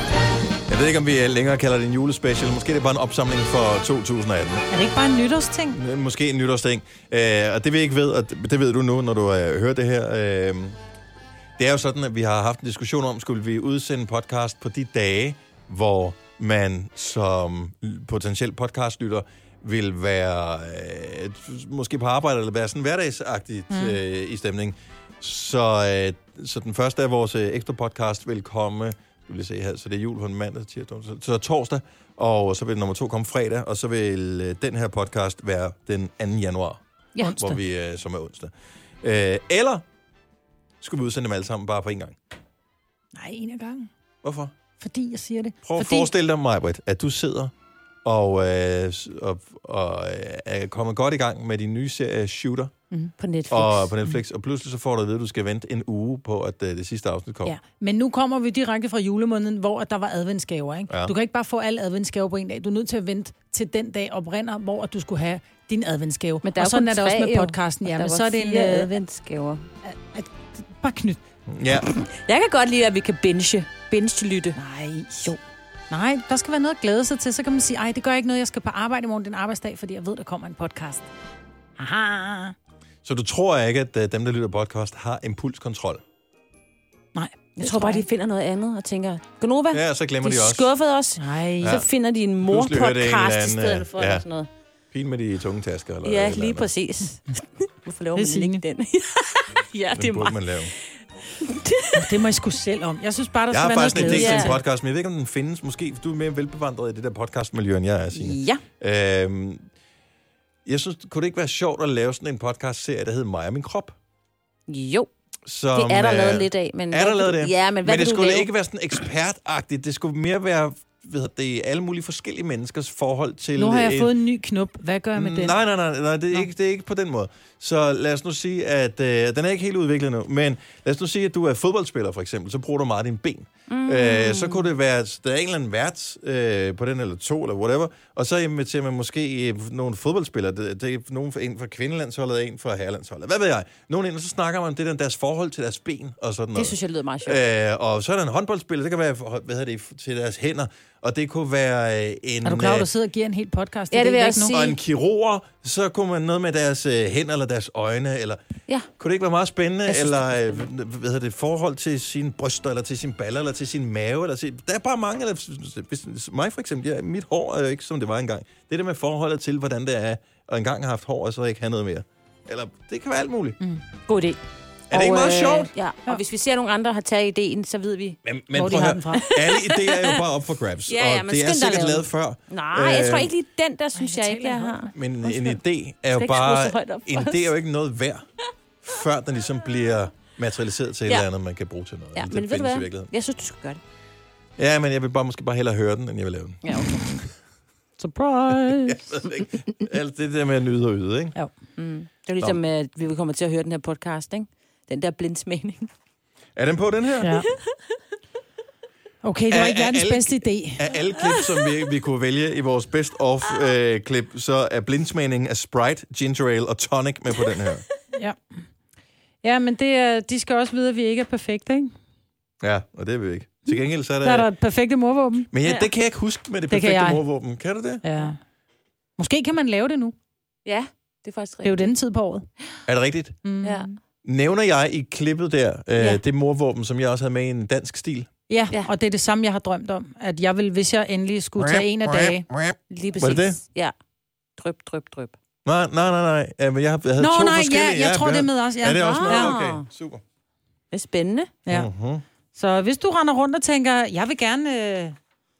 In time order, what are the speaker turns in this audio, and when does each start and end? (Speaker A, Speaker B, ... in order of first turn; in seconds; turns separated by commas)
Speaker A: 0.7-4.7, Speaker B: 4.7-5.8, Speaker A: 5.7-10.8, Speaker A: 11.6-39.9, Speaker B: 23.7-24.0, Speaker B: 37.2-37.6, Speaker A: 40.8-42.2, Speaker B: 43.1-43.9, Speaker A: 44.2-44.5, Speaker B: 44.8-46.1, Speaker A: 45.6-47.5, Speaker A: 48.0-52.7, Speaker C: 53.2-53.9, Speaker A: 53.5-57.6, Speaker B: 57.5-68.9, Speaker C: 66.4-69.7, Speaker B: 69.8-71.2, Speaker A: 71.5-71.9, Speaker C: 71.9-74.6, Speaker B: 74.6-75.3, Speaker B: 75.9-81.1, Speaker B: 81.8-82.5, Speaker A: 83.0-86.0, Speaker B: 87.2-88.0, Speaker C: 87.6-94.5, Speaker A: 89.7-90.7, Speaker B: 91.2-91.8, Speaker A: 91.6-91.9, Speaker A: 92.4-94.2, Speaker A: 94.9-96.7, Speaker C: 96.0-100.7, Speaker B: 98.2-98.6, Speaker A: 100.0-100.7, Speaker C: 101.4-102.2, Speaker B: 101.9-104.6, Speaker A: 103.5-109.7, Speaker C: 104.0-104.6, Speaker C: 108.1-108.6, Speaker A: 110.7-114.0, Speaker C: 114.7-115.1, Speaker A: 115.5-124.1, Speaker C: 115.7-118.5, Speaker B: 123.6-125.6, Speaker A: 125.2-152.9, Speaker C: 133.7-134.7, Speaker C: 146.6-147.4, Speaker B: 152.4-154.5, Speaker C: 153.9-154.8, Speaker A: 154.5-158.4, Speaker A: 159.0-173.6, Speaker C: 159.9-160.6, Speaker C: 174.1-174.4, Speaker A: 174.9-175.7, Speaker C: 174.9-178.2, Speaker A: 178.2-183.3, Speaker B: 178.5-179.3, Speaker C: 179.2-180.2, Speaker C: 180.9-185.3, Speaker B: 183.9-184.9, Speaker A: 184.9-188.3, Speaker C: 186.2-187.5, Speaker A: 188.8-193.1, Speaker C: 192.2-193.8, Speaker A: 194.6-196.7, Speaker C: 196.6-197.2, Speaker B: 198.0-199.1, Speaker A: 198.7-201.4, Speaker C: 201.8-205.9, Speaker A: 206.6-207.4, Speaker B: 207.2-207.5, Speaker B: 209.2-210.9, Speaker A: 209.5-217.8, Speaker C: 211.1-211.7, Speaker B: 218.1-218.7, Speaker B: 219.4-221.9, Speaker A: 222.6-224.5, Speaker B: 224.2-225.5, Speaker A: 225.5-228.0, Speaker B: 226.7-227.2, Speaker B: 228.0-228.4, Speaker B: 229.2-230.2, Speaker C: 230.7-231.9, Speaker B: 231.6-232.4, Speaker A: 232.9-233.4, Speaker B: 233.4-233.9, Speaker C: 233.6-233.9, Speaker A: 234.2-238.3, Speaker C: 236.0-236.2, Speaker B: 238.5-242.5, Speaker A: 241.6-243.6, Speaker C: 242.9-243.9, Speaker C: 244.6-245.3, Speaker A: 245.7-250.2, Speaker B: 247.2-249.5, Speaker C: 249.0-249.9, Speaker C: 250.9-251.5, Speaker A: 251.7-252.2, Speaker B: 252.6-255.2